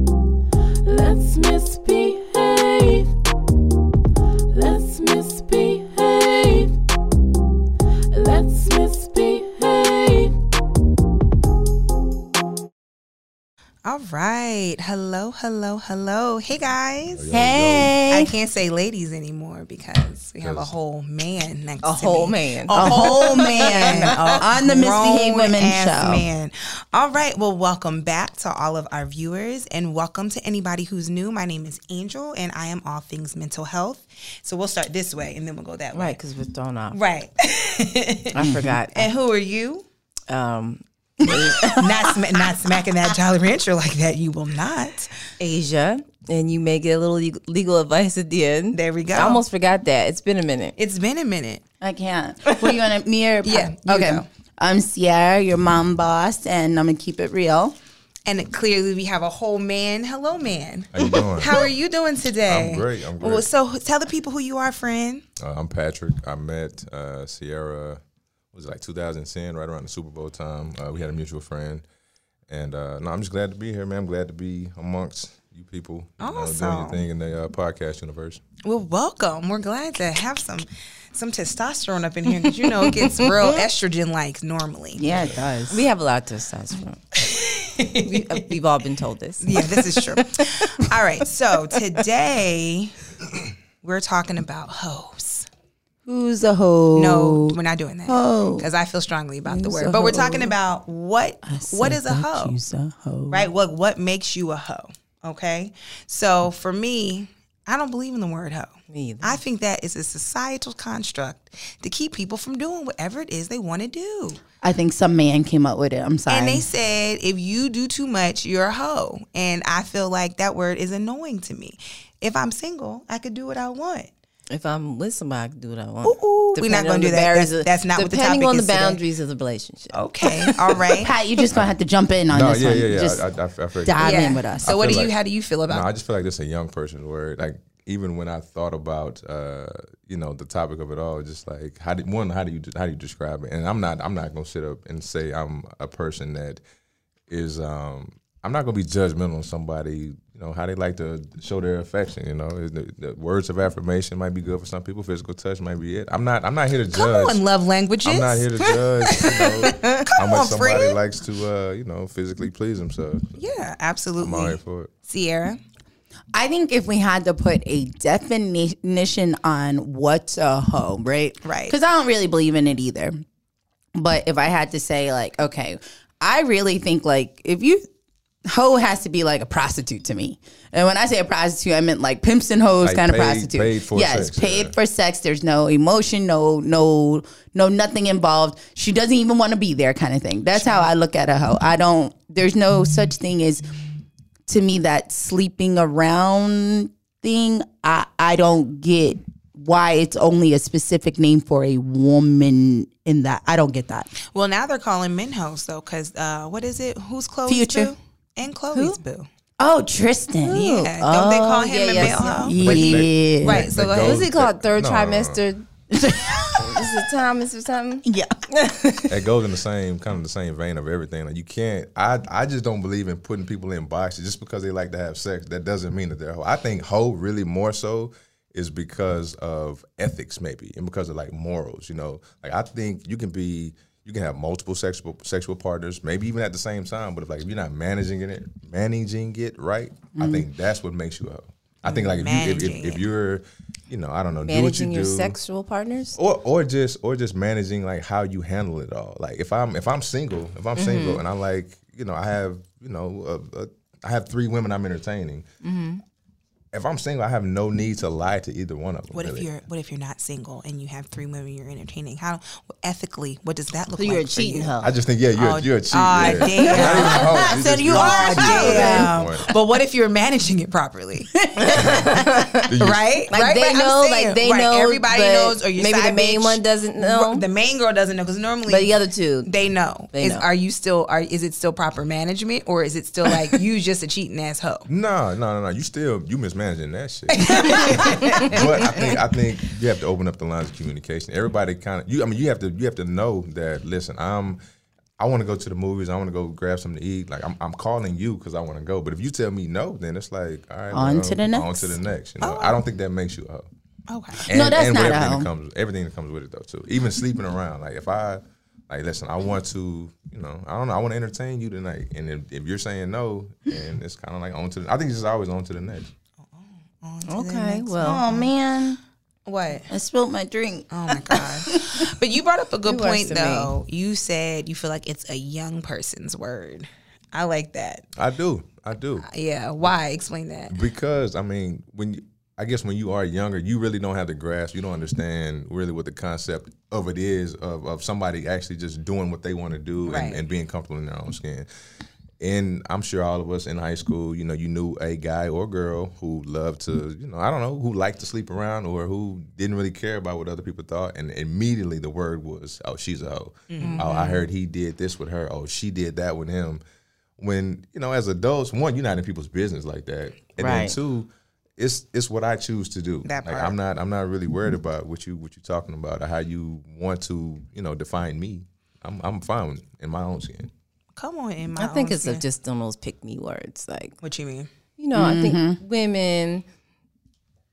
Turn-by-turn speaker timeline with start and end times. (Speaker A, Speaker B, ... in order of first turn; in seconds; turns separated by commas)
Speaker A: 0.8-3.1, Speaker A: 4.5-6.8, Speaker A: 8.1-10.4, Speaker B: 13.8-17.3, Speaker C: 17.1-18.0, Speaker D: 17.3-18.3, Speaker B: 18.1-36.2, Speaker C: 20.4-20.7, Speaker E: 21.8-24.4, Speaker D: 22.7-26.2, Speaker E: 35.9-37.0, Speaker B: 36.9-39.9, Speaker E: 38.3-39.1, Speaker D: 38.4-38.7, Speaker E: 40.3-42.3, Speaker B: 41.7-45.1, Speaker E: 45.4-50.8, Speaker B: 48.7-49.4, Speaker B: 50.8-51.6, Speaker D: 51.8-57.8, Speaker B: 53.4-54.2, Speaker B: 58.3-65.2, Speaker C: 60.9-61.7, Speaker C: 62.4-63.5, Speaker C: 65.4-68.0, Speaker C: 68.5-71.8, Speaker C: 72.5-78.4, Speaker B: 76.2-77.0, Speaker B: 78.6-85.0, Speaker E: 82.8-83.3, Speaker D: 85.0-85.8, Speaker C: 85.1-85.4, Speaker E: 85.7-87.0, Speaker B: 87.2-88.5, Speaker E: 88.0-90.9, Speaker B: 89.4-95.5, Speaker D: 96.1-98.7, Speaker B: 97.0-102.6, Speaker D: 99.5-100.5, Speaker D: 101.5-103.5, Speaker B: 103.3-114.4, Speaker E: 108.9-109.4, Speaker D: 114.6-116.7, Speaker B: 116.3-124.1, Speaker E: 124.5-130.6, Speaker B: 126.0-129.0, Speaker B: 129.9-131.1, Speaker D: 131.0-133.2, Speaker C: 132.3-135.1, Speaker D: 133.8-134.7, Speaker B: 134.0-135.9, Speaker C: 135.7-146.6, Speaker C: 147.3-157.4, Speaker B: 156.9-161.0, Speaker C: 158.0-163.4, Speaker B: 163.4-165.6, Speaker C: 164.2-164.9, Speaker D: 166.3-173.2, Speaker B: 171.4-171.8, Speaker D: 173.9-177.9, Speaker D: 178.5-193.7, Speaker C: 182.8-184.8, Speaker D: 194.5-204.1, Speaker B: 204.3-209.3, Speaker D: 207.5-207.9, Speaker E: 208.7-209.0, Speaker D: 209.6-210.6, Speaker E: 210.4-212.6, Speaker B: 210.5-214.2, Speaker D: 212.0-213.7, Speaker C: 212.5-215.4, Speaker E: 213.7-215.7, Speaker D: 215.9-217.0, Speaker E: 216.5-219.1, Speaker D: 218.1-218.3, Speaker C: 219.1-245.4, Speaker D: 240.2-240.5, Speaker B: 241.9-243.1, Speaker E: 244.4-246.2, Speaker C: 246.2-255.5, Speaker E: 250.8-251.2, Speaker E: 255.6-256.0, Speaker C: 256.7-259.5, Speaker B: 259.1-264.7, Speaker E: 264.0-264.9, Speaker C: 264.8-269.5, Speaker B: 265.4-271.9, Speaker D: 266.6-269.1, Speaker E: 268.6-269.1, Speaker E: 271.6-272.7, Speaker C: 272.7-273.1, Speaker B: 272.7-284.9, Speaker E: 273.3-277.5, Speaker E: 278.7-279.5, Speaker E: 280.1-280.4, Speaker C: 284.9-294.6, Speaker B: 287.3-289.1, Speaker C: 295.2-303.7, Speaker D: 300.9-301.9, Speaker B: 302.4-302.8, Speaker B: 304.1-304.5, Speaker C: 304.5-316.1, Speaker D: 304.5-305.5, Speaker B: 316.5-318.5, Speaker E: 317.3-318.2, Speaker D: 318.0-319.0, Speaker B: 319.5-319.9, Speaker D: 319.9-322.1, Speaker B: 320.9-328.0, Speaker E: 322.9-323.7, Speaker C: 328.2-329.3, Speaker B: 329.3-330.7, Speaker C: 330.7-341.7, Speaker B: 340.1-340.4, Speaker C: 342.4-356.8, Speaker B: 353.7-354.1, Speaker E: 353.8-354.5, Speaker C: 357.4-370.7, Speaker E: 360.6-361.0, Speaker B: 363.2-363.8, Speaker B: 371.2-372.4, Speaker E: 371.8-374.1, Speaker B: 374.2-374.7, Speaker E: 375.0-376.6, Speaker D: 375.1-375.8